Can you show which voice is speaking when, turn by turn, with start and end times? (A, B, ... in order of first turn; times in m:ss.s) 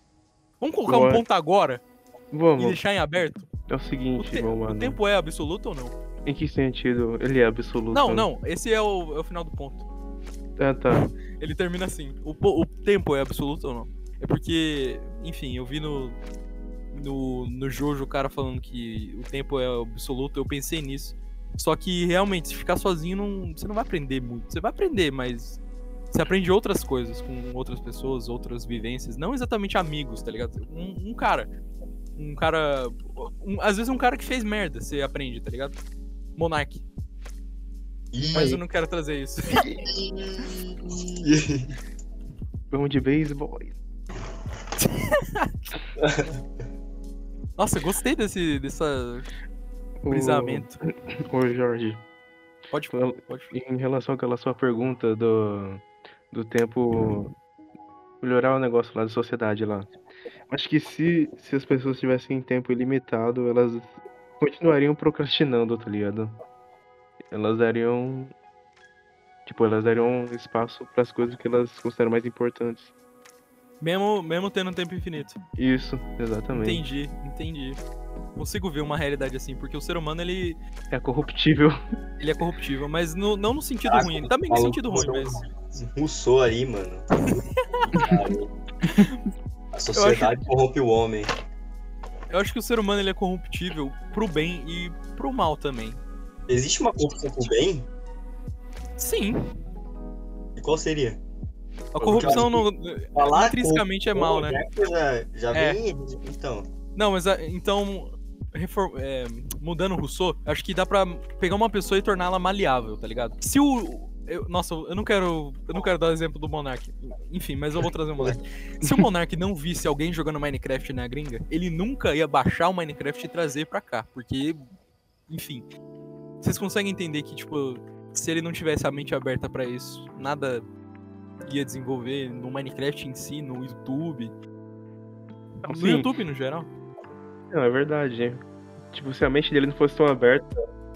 0:00.6-0:01.8 A
0:00.9-0:01.2 B
0:02.3-0:02.8 B
0:02.6-0:03.5 A
0:03.7-0:05.0 B
0:04.2-0:06.0 A
0:06.2-0:08.3 B
0:07.9-0:09.9 A
0:10.6-0:11.0 B
0:11.0-0:16.2 A
0:16.9-0:25.6 A
0:26.1-0:31.5 A
0:32.2-0:35.8 A
0:36.4-0:36.8 A
0:38.1-0:38.6 C
0:38.3-0:39.6 A
0:39.5-0:41.7 C
0:42.7-0:43.8 B
0:44.8-0:45.8 A
0:46.0-0:46.3 C
0:47.6-0:49.3 A
0:50.0-0:50.7 B
0:50.1-0:50.8 A
0:51.3-0:52.0 B
0:52.7-0:53.5 A
0:52.9-0:57.3 B
0:58.2-0:59.9 B
1:00.5-1:06.4 B
1:07.3-1:08.3 B
1:09.5-1:12.9 B
1:13.8-1:15.4 A
1:15.6-1:16.8 B
1:16.5-1:17.8 A
1:18.4-1:20.6 A
1:20.9-1:21.8 B
1:22.2-1:25.4 A
1:23.9-1:27.1 C
1:27.9-1:28.5 C
1:27.9-1:28.2 B
1:28.8-1:29.2 A
1:29.7-1:31.3 C
1:30.0-1:30.4 A
1:32.3-1:36.0 A
1:36.5-1:37.9 C
1:39.0-1:39.4 A
1:40.6-1:41.2 C
1:41.9-1:44.6 A
1:42.0-1:46.7 C
1:42.1-1:42.5 B
1:45.5-1:45.8 A
1:47.0-2:04.6 A
2:05.3-2:05.7 A
2:06.4-2:10.6 A
2:11.5-2:14.3 A
2:15.6-2:16.7 A
2:15.7-2:16.1 B
2:17.5-2:20.6 B